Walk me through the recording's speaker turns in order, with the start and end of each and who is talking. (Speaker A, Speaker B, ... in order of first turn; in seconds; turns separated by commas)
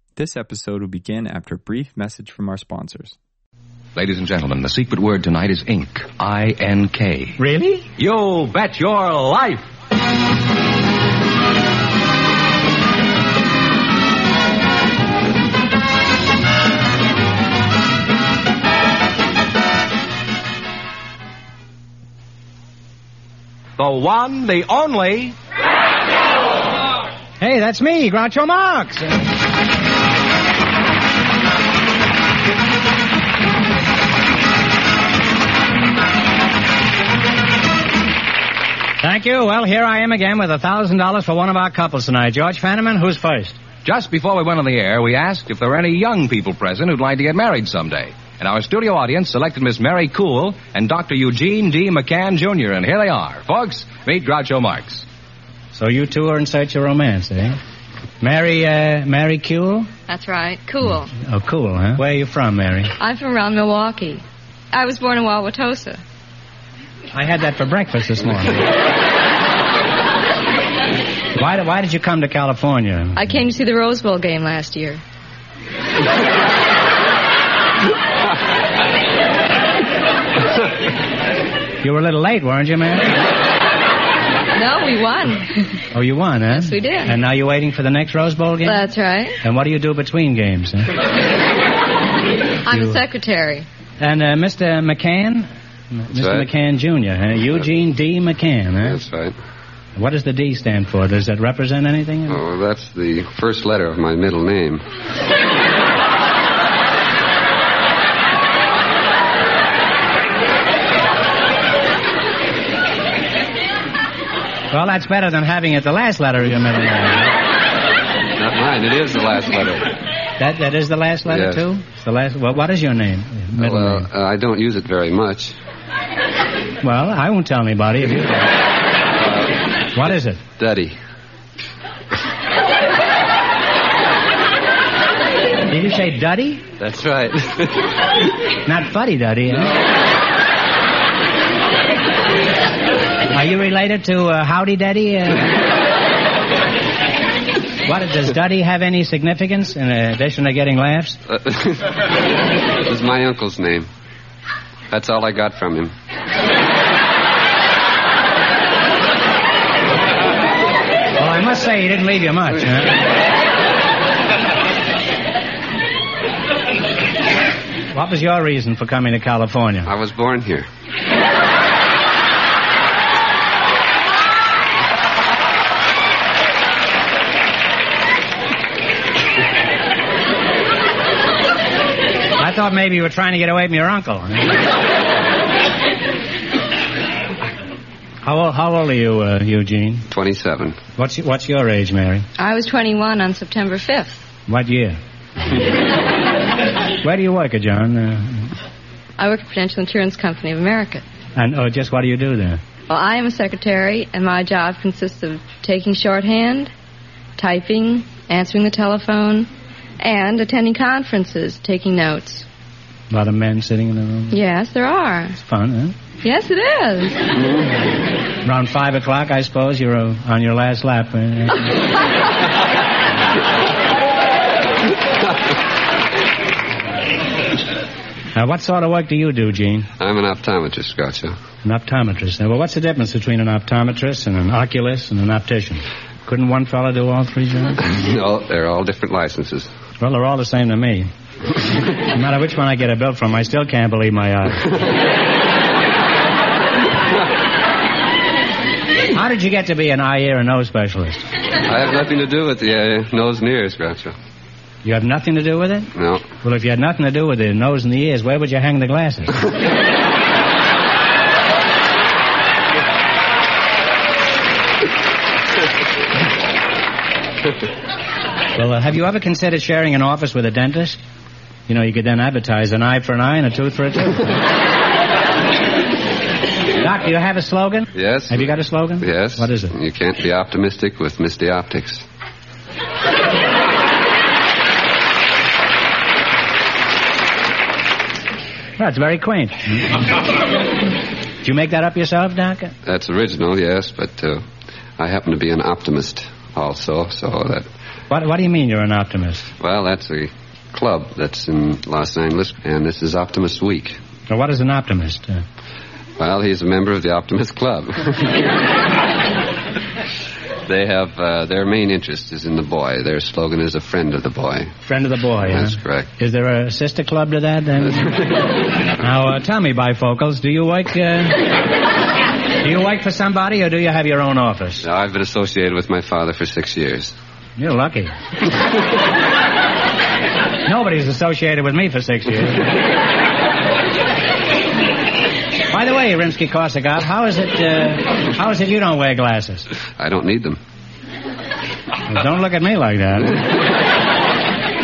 Speaker A: 0.2-3.2, Speaker B: 4.0-7.4, Speaker C: 7.4-7.9, Speaker B: 8.0-9.6, Speaker B: 23.8-25.3, Speaker C: 27.4-29.2, Speaker C: 39.0-43.6, Speaker B: 43.9-55.0, Speaker C: 55.7-57.6, Speaker C: 58.2-59.9, Speaker D: 60.1-61.1, Speaker C: 61.2-63.0, Speaker D: 63.0-66.0, Speaker C: 67.1-68.7, Speaker C: 71.3-73.3, Speaker D: 73.2-75.0, Speaker C: 81.8-83.2, Speaker D: 84.5-85.6, Speaker C: 85.9-88.8, Speaker D: 86.5-87.2, Speaker D: 88.7-89.4, Speaker C: 89.4-90.9, Speaker D: 92.7-93.7, Speaker C: 92.7-93.0, Speaker C: 94.0-99.0, Speaker E: 96.2-96.5, Speaker E: 98.8-99.3, Speaker C: 100.0-102.4, Speaker E: 102.3-104.8, Speaker C: 114.7-117.3, Speaker E: 118.4-120.0, Speaker C: 120.4-124.1, Speaker E: 121.3-121.6, Speaker E: 123.6-125.5, Speaker C: 126.8-128.5, Speaker E: 129.2-129.6, Speaker C: 129.9-130.4, Speaker E: 130.6-131.0, Speaker C: 135.7-136.7, Speaker E: 136.8-137.9, Speaker C: 138.7-139.7, Speaker C: 143.3-145.6, Speaker C: 147.8-151.2, Speaker E: 151.3-152.0, Speaker E: 152.8-153.9, Speaker E: 154.9-155.9, Speaker C: 161.2-163.0, Speaker C: 167.9-169.9, Speaker E: 169.8-170.7, Speaker C: 182.4-184.6, Speaker C: 188.2-190.1, Speaker E: 190.1-190.8, Speaker C: 191.0-192.3, Speaker D: 192.4-194.3, Speaker C: 194.5-195.0, Speaker C: 197.0-198.5, Speaker D: 199.2-201.1, Speaker C: 201.4-202.6, Speaker D: 202.9-206.7, Speaker D: 207.4-209.5, Speaker D: 210.0-212.5, Speaker C: 213.1-214.4, Speaker D: 214.3-215.4, Speaker C: 215.4-216.0, Speaker D: 216.2-217.4, Speaker C: 218.4-221.8, Speaker C: 228.3-229.9, Speaker E: 230.0-231.4, Speaker C: 231.6-237.9, Speaker E: 237.8-239.7, Speaker C: 240.0-241.1, Speaker C: 242.0-244.8, Speaker C: 249.1-251.3, Speaker E: 251.7-254.2, Speaker C: 254.8-259.4, Speaker E: 256.0-256.3, Speaker C: 268.6-271.0, Speaker C: 271.7-274.4, Speaker C: 276.8-279.8, Speaker E: 278.0-282.1, Speaker C: 288.8-290.1, Speaker C: 291.4-292.7, Speaker E: 292.9-294.4, Speaker E: 295.0-297.7, Speaker C: 298.1-299.5, Speaker E: 299.6-304.0, Speaker C: 304.3-305.4, Speaker E: 306.2-308.5, Speaker E: 310.7-314.7, Speaker C: 314.8-318.2, Speaker E: 315.5-316.1, Speaker C: 319.0-321.5, Speaker C: 322.6-324.9, Speaker E: 324.8-327.1, Speaker C: 327.6-328.1, Speaker C: 330.7-332.7, Speaker C: 335.7-339.7, Speaker E: 340.0-340.6, Speaker C: 342.1-343.5